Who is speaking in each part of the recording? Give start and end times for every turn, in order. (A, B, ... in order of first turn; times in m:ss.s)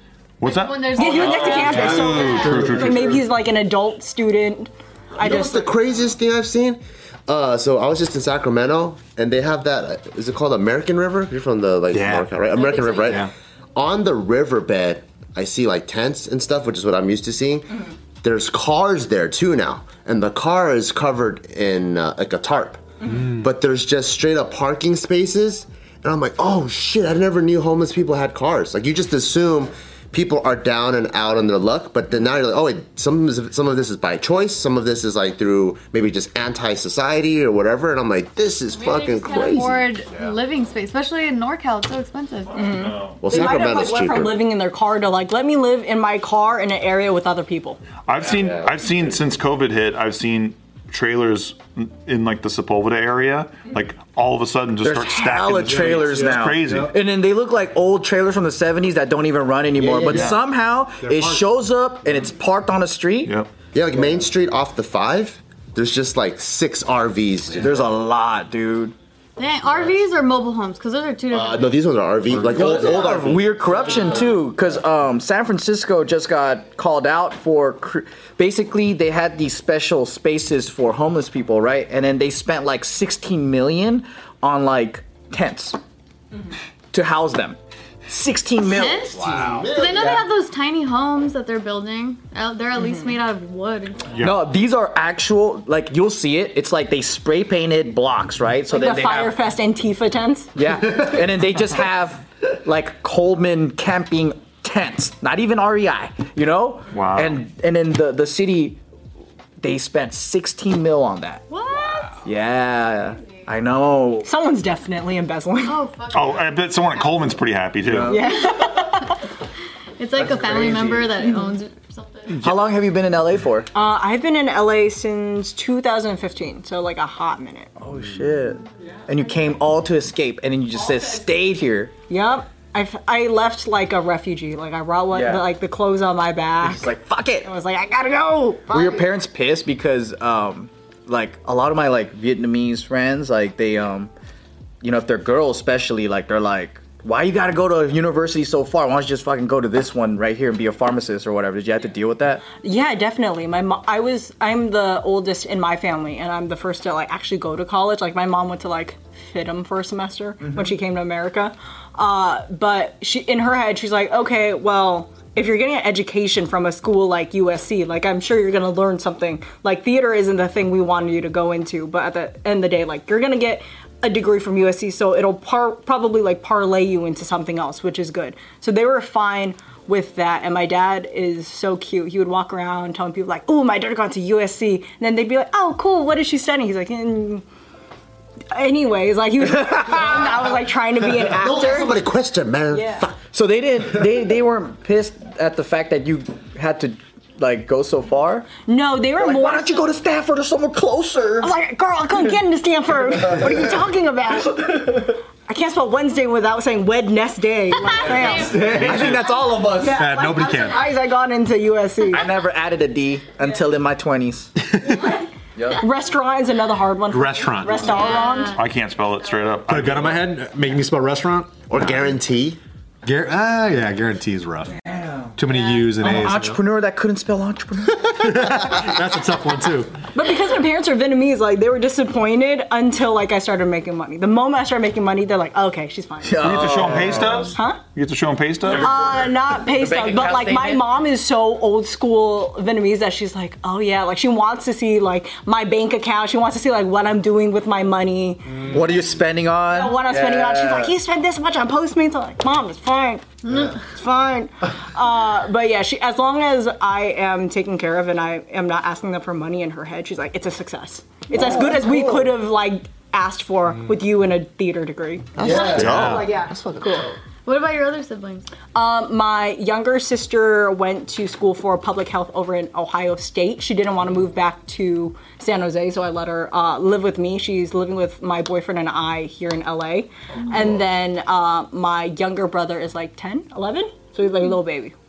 0:00.4-0:03.3 A
0:00.4-0:02.7 B
0:00.9-0:05.8 C
0:05.2-0:39.9 D
0:11.9-0:12.3 E
0:38.7-0:42.6 B
0:42.5-0:43.2 A
0:42.6-0:47.8 C
0:43.2-0:44.4 D
0:48.0-0:56.9 A
0:48.3-0:48.7 D
0:54.8-1:03.3 F
0:55.6-0:56.9 E
0:59.8-1:00.3 D
1:00.0-1:00.4 A
1:01.0-1:01.4 E
1:03.7-1:07.7 D
1:07.5-1:08.9 F
1:09.4-1:11.7 B
1:11.3-1:13.4 D
1:12.5-1:25.8 F
1:12.5-1:13.1 E
1:26.9-1:30.1 F
1:28.6-1:34.1 B
1:29.1-1:30.3 D
1:32.8-1:33.0 C
1:34.1-1:34.4 A
1:34.2-1:39.4 F
1:38.7-1:40.5 C
1:40.5-1:48.8 F
1:46.9-1:47.4 A
1:49.6-1:51.4 F
1:51.5-1:52.2 B
1:52.2-1:54.3 F
1:54.2-1:55.8 C
1:55.6-1:57.3 B
1:56.1-1:58.2 A
1:57.8-1:58.3 F
1:58.1-1:59.2 C
2:00.0-2:02.4 B
2:00.3-2:01.0 E
2:01.2-2:01.5 C
2:02.4-2:03.7 F
2:03.7-2:07.7 C
2:07.8-2:11.9 F
2:12.1-2:16.9 C
2:15.1-2:15.5 F
2:16.6-2:17.5 F
2:17.4-2:19.0 C
2:18.7-2:24.1 F
2:24.8-2:32.4 F
2:32.6-3:07.4 C
3:08.5-3:12.0 C
3:11.3-3:13.2 D
3:12.7-3:13.0 C
3:13.3-3:18.5 F
3:18.6-3:19.9 C
3:19.2-3:21.5 F
3:21.4-3:29.1 C
3:27.7-3:29.2 B
3:28.2-3:30.0 F
3:28.5-3:29.2 E
3:29.6-3:32.2 C
3:29.8-3:30.9 E
3:32.1-3:34.5 F
3:34.9-3:38.6 C
3:35.6-3:35.8 F
3:37.1-3:38.1 E
3:37.8-3:38.6 B
3:38.5-3:40.3 A
3:39.7-3:42.1 E
3:41.7-3:42.6 D
3:43.0-3:44.7 E
3:44.8-3:48.1 F
3:45.4-3:46.6 E
3:48.1-3:50.0 E
3:50.1-3:56.4 C
3:56.2-3:57.4 F
3:56.4-3:58.9 A
3:57.5-3:57.8 C
3:58.7-4:08.7 C
3:59.7-4:00.9 F
4:08.6-4:10.9 F
4:09.7-4:27.1 C
4:21.9-4:22.2 F
4:25.4-4:27.1 D
4:25.4-4:26.2 E
4:27.4-4:28.5 B
4:28.7-4:44.9 C